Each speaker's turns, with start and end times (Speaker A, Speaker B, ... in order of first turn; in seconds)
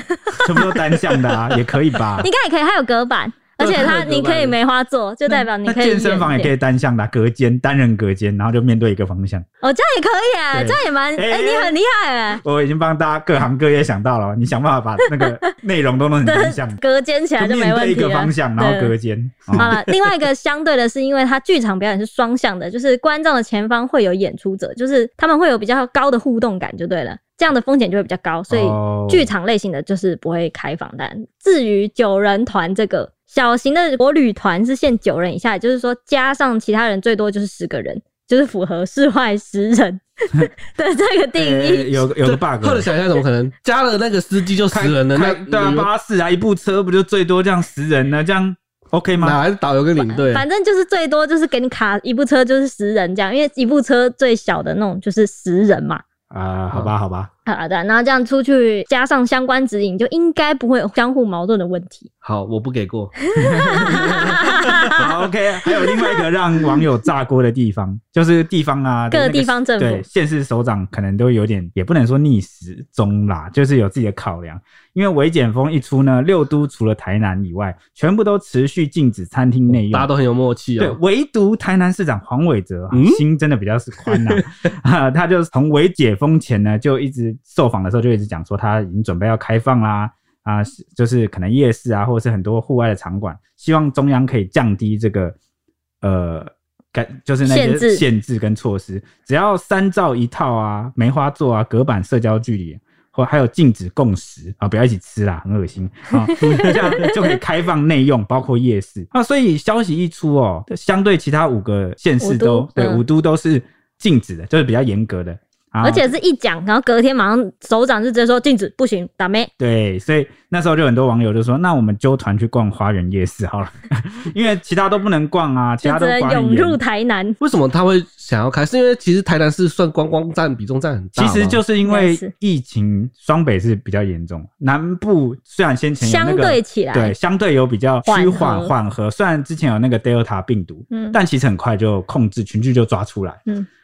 Speaker A: 0.3-0.6, 2.2-6.5, 9.6-12.4, 15.1-15.4, 16.2-18.9, 19.5-42.1, 50.0-56.0, 57.5-62.1, 63.4-65.0, 65.7-66.2, 69.1-70.0, 97.4-98.0, 106.2-107.3, 112.2-113.0, 115.8-119.5, 125.8-127.4, 131.8-132.3, 136.0-137.1, 138.0-138.7, 140.9-141.2
Speaker B: 0.4-2.3, 5.3-9.4, 10.5-11.8, 12.4-16.8, 17.4-19.7, 28.5-29.3, 41.4-42.9, 44.7-49.4, 56.3-57.3, 63.4-64.4, 64.9-80.1, 80.8-95.3, 96.0-116.1, 119.6-126.8, 131.2-143.4
Speaker C: 3.6-4.5, 42.2-45.9, 49.2-50.4, 62.2-63.1, 63.9-64.8, 79.7-81.0, 82.9-83.2, 84.1-84.4, 106.4-106.9, 127.4-131.6